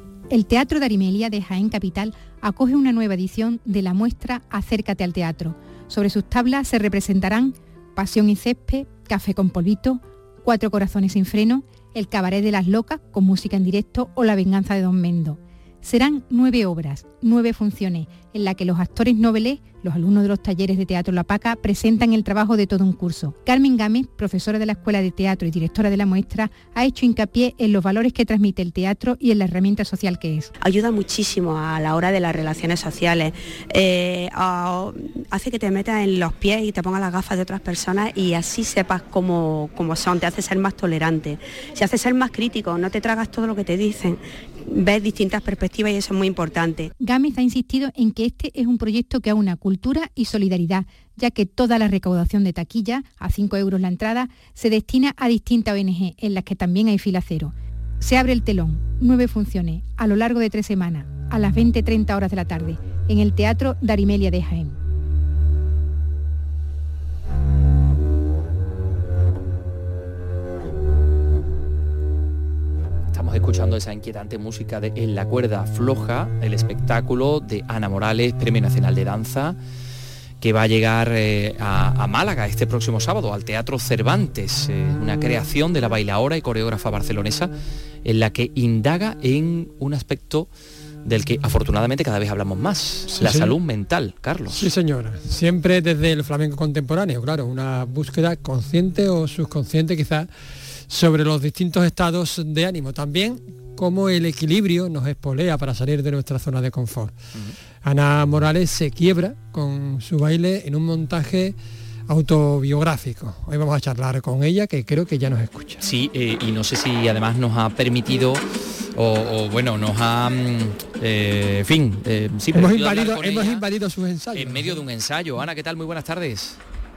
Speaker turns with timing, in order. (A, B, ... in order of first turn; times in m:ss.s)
0:00.3-0:30.5 A
0:30.6-0:46.9 B
0:47.0-1:04.8 A
1:13.1-1:19.6 C
1:20.4-1:27.5 C
1:28.0-1:30.5 C
1:31.0-1:34.7 C
1:33.1-1:33.6 D
1:34.5-1:40.3 D
1:40.9-1:47.2 D
1:47.8-1:55.8 D
1:55.8-1:58.4 C
1:58.9-2:03.6 C
2:02.5-2:04.8 D
2:04.3-2:06.6 C